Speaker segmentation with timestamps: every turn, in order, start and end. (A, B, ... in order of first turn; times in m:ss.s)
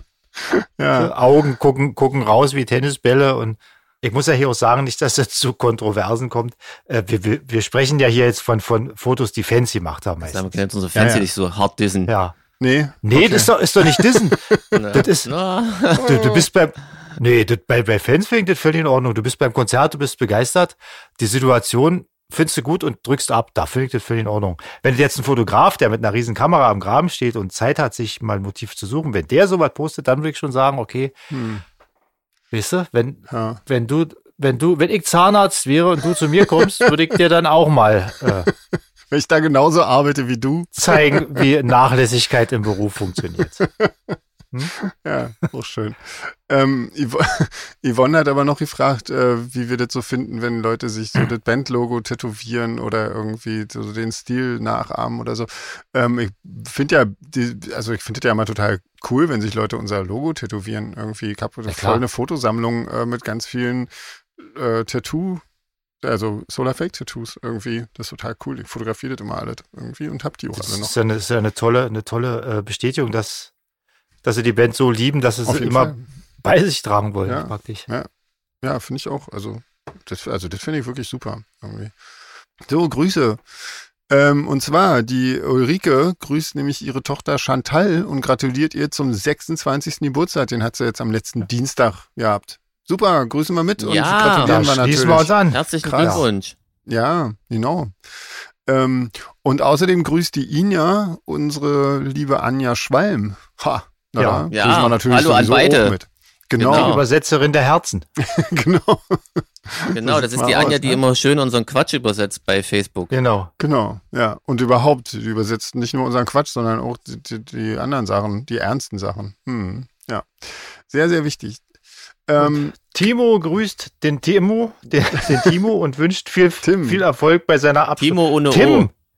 0:00.4-0:01.1 A
0:00.9-0:10.5 B
0:10.2-0:12.1 C
0:11.0-0:11.3 A
0:12.1-0:12.4 B
0:12.6-0:14.8 A
0:13.0-0:15.3 B
0:14.7-0:16.5 C
0:16.0-0:31.1 B
0:31.3-0:31.6 A
0:32.5-0:38.5 B
0:33.3-0:33.6 A
0:36.4-0:36.9 A
0:38.7-0:41.5 A
0:40.8-0:43.6 B
0:43.6-0:44.2 A
0:44.8-1:05.4 A
1:01.7-1:02.0 B
1:06.0-1:11.0 A
1:10.5-1:13.5 B
1:14.2-1:17.9 B
1:15.5-1:16.0 A
1:17.3-1:18.1 A
1:18.6-1:21.9 A
1:22.7-1:36.3 A
1:33.8-1:36.6 C
1:34.4-1:36.2 B
1:36.9-1:38.0 A
1:38.6-1:47.0 A
1:44.2-1:44.5 B
1:44.5-1:46.0 C
1:46.6-1:47.0 C
1:46.6-1:48.1 B
1:48.2-1:51.0 A
1:49.9-1:53.1 C
1:53.1-1:53.5 B
1:53.6-2:01.6 A
2:02.3-2:02.8 A
2:02.4-2:08.9 B
2:05.2-2:05.5 A
2:06.6-2:07.0 A
2:08.0-2:08.9 C